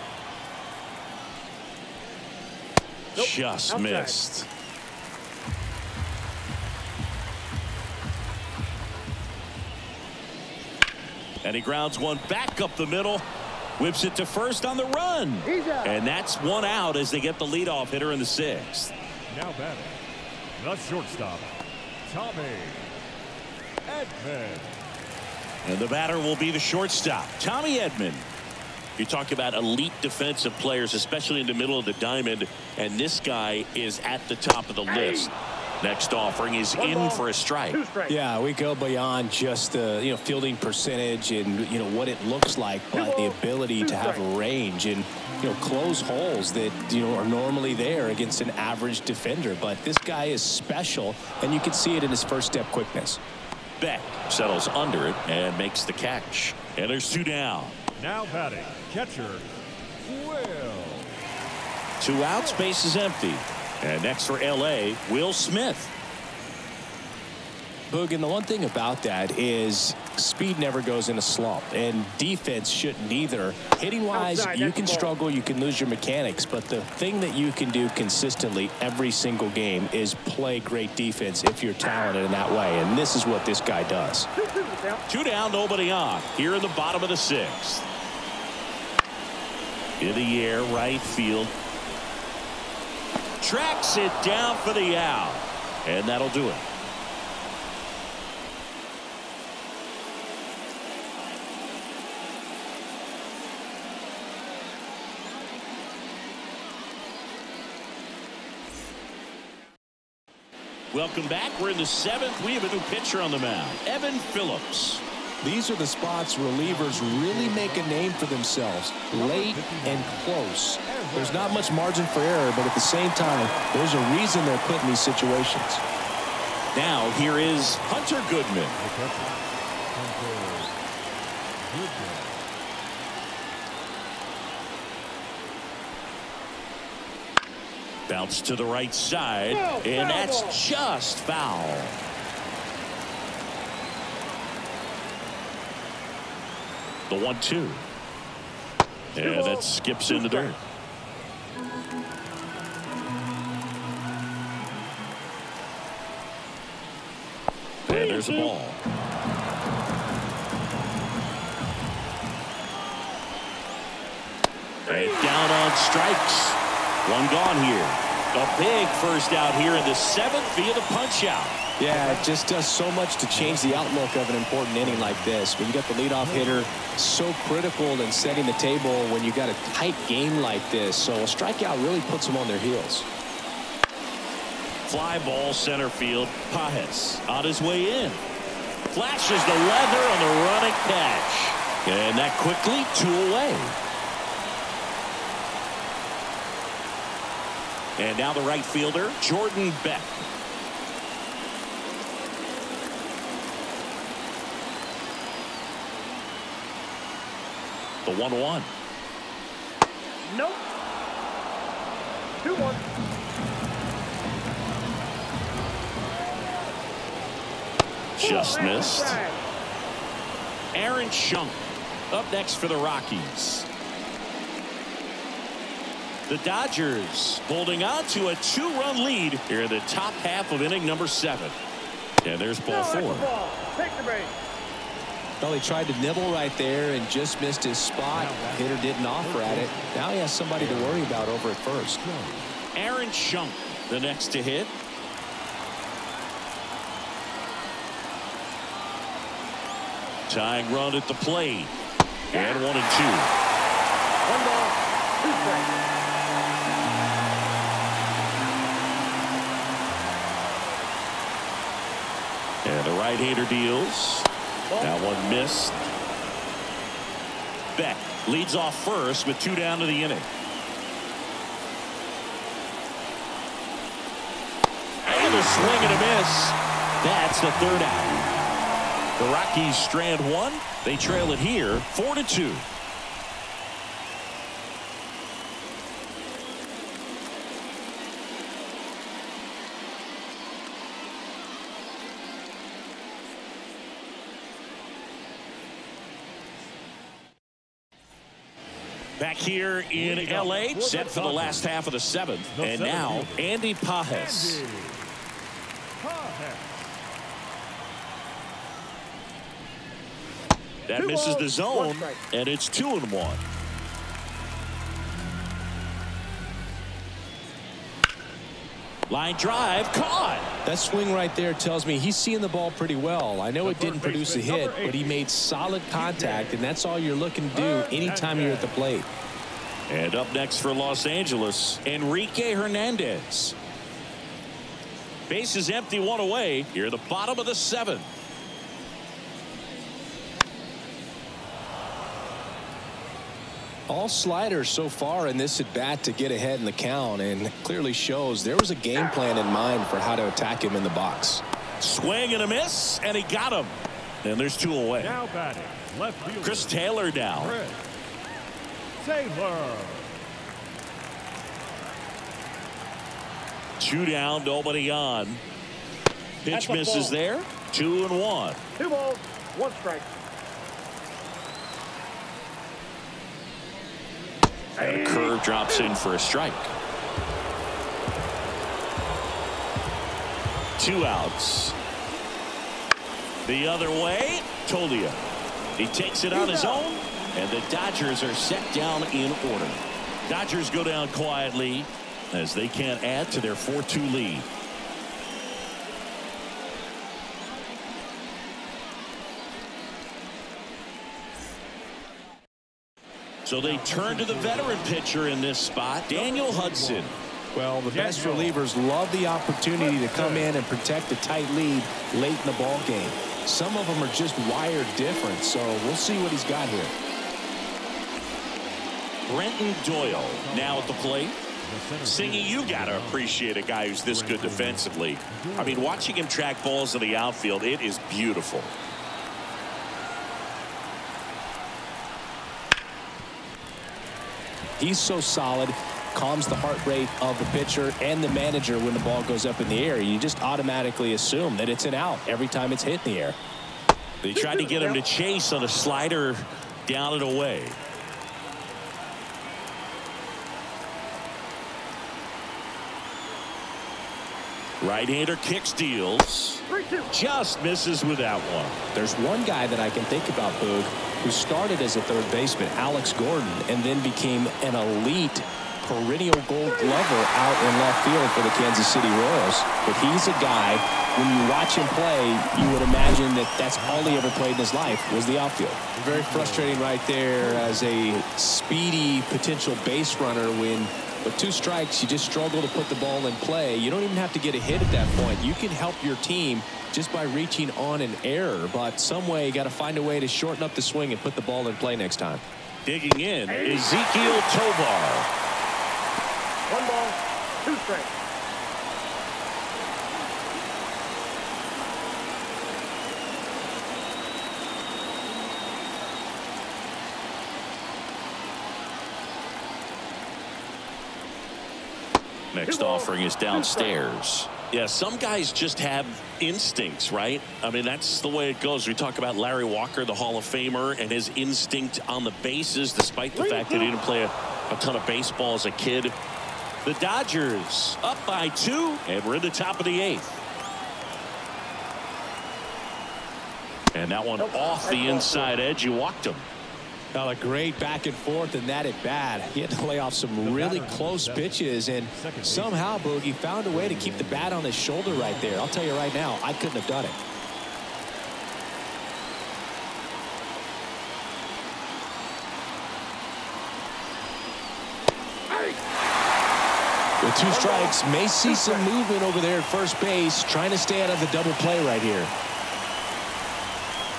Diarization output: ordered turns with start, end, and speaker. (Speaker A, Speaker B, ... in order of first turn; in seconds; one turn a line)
Speaker A: 3.1-4.5
Speaker B: 3.1-4.2
Speaker A: 11.4-13.2
Speaker A: 13.8-18.9
Speaker B: 15.4-16.0
Speaker C: 19.3-20.0
Speaker C: 20.6-22.9
Speaker C: 23.8-24.8
Speaker A: 25.6-28.3
Speaker A: 29.0-37.8
Speaker B: 34.9-35.3
Speaker B: 36.8-38.1
Speaker D: 38.1-53.2
Speaker B: 42.9-44.2
Speaker A: 53.8-57.8
Speaker C: 58.0-61.3
Speaker A: 62.0-65.9
Speaker C: 62.4-62.7
Speaker D: 67.9-84.3
Speaker B: 74.1-75.1
Speaker B: 81.8-82.1
Speaker B: 84.3-85.0
Speaker A: 85.1-87.8
Speaker A: 90.0-91.5
Speaker A: 93.4-96.7
Speaker A: 110.9-115.0
Speaker D: 115.4-125.8
Speaker C: 116.6-118.5
Speaker C: 119.1-120.3
Speaker C: 120.8-122.0
Speaker C: 123.2-123.9
Speaker A: 126.7-128.8
Speaker C: 128.7-130.7
Speaker C: 131.6-132.4
Speaker A: 138.1-142.0
Speaker B: 139.5-140.6
Speaker A: 147.1-147.8
Speaker A: 149.1-150.6
Speaker B: 149.2-150.5
Speaker A: 157.9-158.8
Speaker B: 157.9-158.5
Speaker A: 164.9-171.6
Speaker D: 171.8-183.1
Speaker C: 171.9-172.4
Speaker C: 173.3-174.0
Speaker C: 174.8-175.4
Speaker C: 176.2-176.9
Speaker A: 184.8-188.2
Speaker A: 188.9-193.8
Speaker A: 198.0-200.2
Speaker A: 208.0-208.7
Speaker B: 210.2-210.6
Speaker B: 212.4-212.8
Speaker A: 218.2-219.2
Speaker B: 218.2-219.4
Speaker A: 220.7-223.7
Speaker A: 226.3-231.5
Speaker A: 232.2-233.3
Speaker B: 232.7-234.3
Speaker D: 235.4-242.0
Speaker C: 238.1-239.8
Speaker C: 240.5-241.3
Speaker C: 241.9-242.5
Speaker A: 242.7-244.7
Speaker A: 250.3-251.7
Speaker B: 252.3-252.6
Speaker A: 252.3-253.3
Speaker B: 254.2-255.8
Speaker A: 262.6-264.3
Speaker B: 264.7-264.9
Speaker A: 264.8-265.8
Speaker A: 267.8-270.3
Speaker A: 275.0-278.2
Speaker B: 275.1-275.4
Speaker A: 279.2-282.6
Speaker A: 299.2-304.6
Speaker C: 299.9-301.6
Speaker C: 302.5-303.5
Speaker C: 304.1-305.2
Speaker C: 305.9-307.0
Speaker A: 310.9-313.4
Speaker B: 310.9-312.2
Speaker A: 319.1-320.5
Speaker D: 320.6-329.1
Speaker C: 323.6-325.3
Speaker C: 325.8-326.6
Speaker C: 327.5-328.8
Speaker A: 329.9-333.6
Speaker A: 335.3-338.1
Speaker D: 343.9-351.4
Speaker A: 351.8-355.2
Speaker C: 355.0-356.8
Speaker A: 356.4-357.6
Speaker C: 357.3-357.9
Speaker C: 359.0-360.2
Speaker A: 363.8-365.4
Speaker A: 366.4-368.6
Speaker B: 366.5-367.1
Speaker B: 368.8-370.1
Speaker B: 374.8-375.9
Speaker A: 374.8-376.7
Speaker A: 380.8-381.8
Speaker A: 383.4-385.2
Speaker A: 385.8-394.5
Speaker B: 386.3-387.0
Speaker A: 403.4-407.1
Speaker C: 403.6-405.0
Speaker C: 406.1-407.1
Speaker D: 407.5-416.9
Speaker C: 407.9-408.6
Speaker C: 409.8-410.6
Speaker A: 419.3-421.4
Speaker C: 420.1-421.1
Speaker C: 421.6-423.4
Speaker A: 422.0-428.7
Speaker C: 424.0-426.1
Speaker D: 434.8-443.4
Speaker A: 444.2-447.8
Speaker B: 444.3-445.0
Speaker A: 454.8-458.8
Speaker B: 456.7-457.1
Speaker D: 458.9-492.4
Speaker B: 466.6-467.0
Speaker C: 473.7-475.1
Speaker C: 475.9-477.8
Speaker A: 492.8-495.3
Speaker B: 493.5-494.4
Speaker B: 496.7-498.1
Speaker A: 512.5-526.1
Speaker B: 512.6-514.0
Speaker B: 523.3-524.0
Speaker A: 526.8-530.3
Speaker A: 533.9-536.5
Speaker B: 534.4-535.5
Speaker D: 537.1-547.2
Speaker C: 540.4-543.2
Speaker C: 543.7-544.6
Speaker C: 545.1-545.6
Speaker D: 557.2-562.3
Speaker B: 557.5-558.9